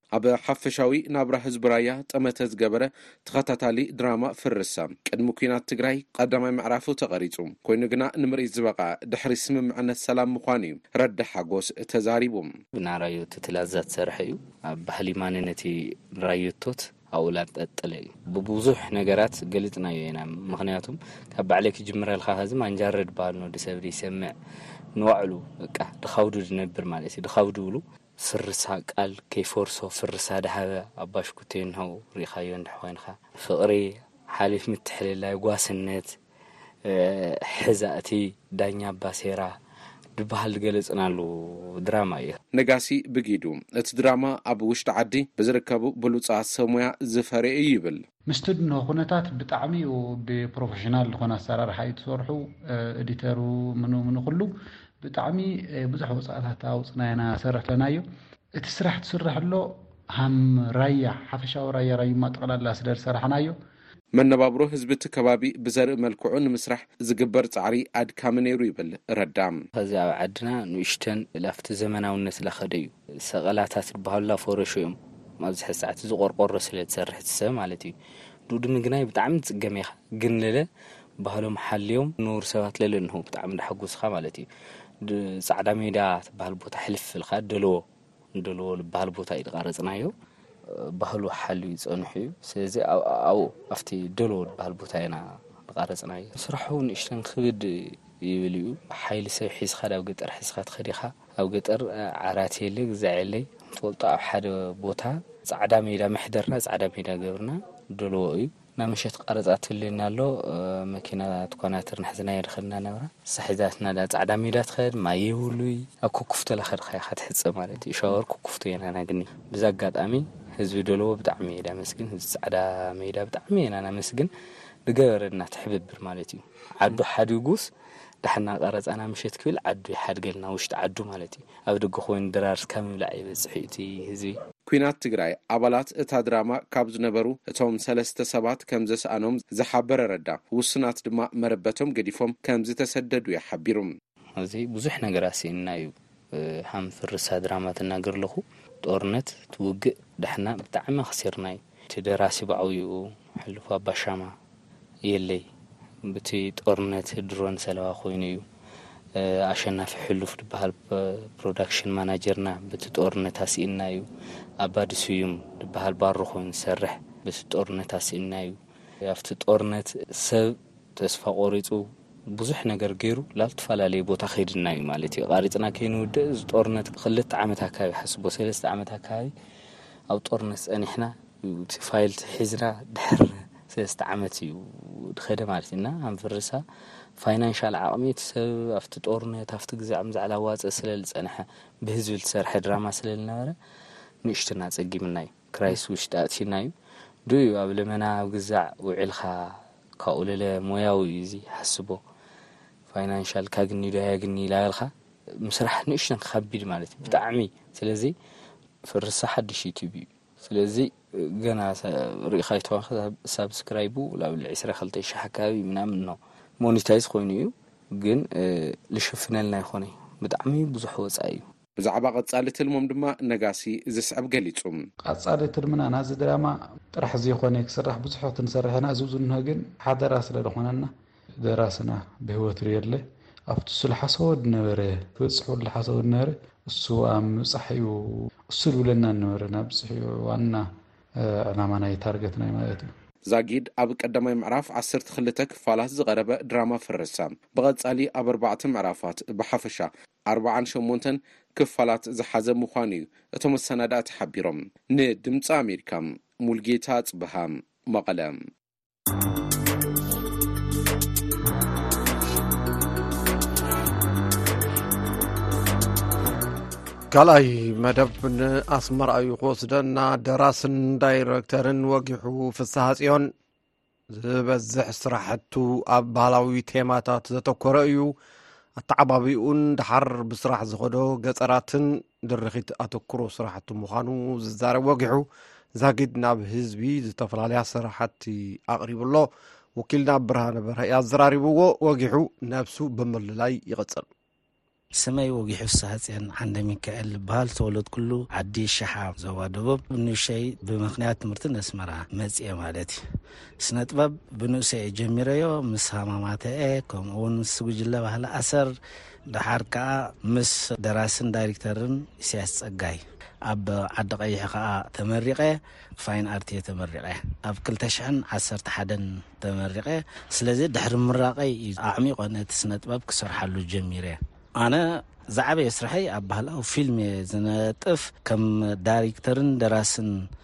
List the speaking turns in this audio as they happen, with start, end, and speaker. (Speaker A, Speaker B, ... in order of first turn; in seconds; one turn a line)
Speaker A: 0.1-12.5
Speaker B: 12.8-24.3
Speaker B: 25.0-36.1
Speaker B: 36.8-39.5
Speaker B: 40.2-42.4
Speaker A: 42.5-48.0
Speaker C: 48.3-54.5
Speaker C: 55.0-58.0
Speaker C: 58.6-63.5
Speaker A: 64.2-69.6
Speaker B: 69.7-77.9
Speaker B: 78.5-80.7
Speaker B: 81.2-84.5
Speaker B: 85.0-87.8
Speaker B: 88.4-90.1
Speaker B: 91.0-124.3
Speaker B: 124.9-127.7
Speaker B: 128.2-134.4
Speaker A: 134.7-143.9
Speaker B: 144.4-154.3
Speaker B: 155.1-155.4
Speaker B: 156.1-158.4
Speaker B: 159.2-164.1
Speaker B: 164.6-171.8
Speaker B: 172.3-179.3
Speaker B: 180.1-186.6
Speaker B: 187.2-193.6
Speaker B: 194.2-196.7
Speaker B: 197.3-202.0
Speaker B: 202.9-204.9
Speaker B: 205.4-208.1
Speaker B: 208.9-221.4
Speaker A: 221.8-224.8
Speaker C: 225.1-230.9
Speaker C: 231.4-240.7
Speaker C: 241.2-242.9
Speaker A: 243.3-258.4
Speaker D: 267.1-273.3
Speaker D: 274.1-278.1
Speaker D: 278.8-285.2
Speaker D: 285.8-294.1
Speaker E: 295.0-303.0
Speaker E: 303.6-308.7
Speaker E: 309.3-330.2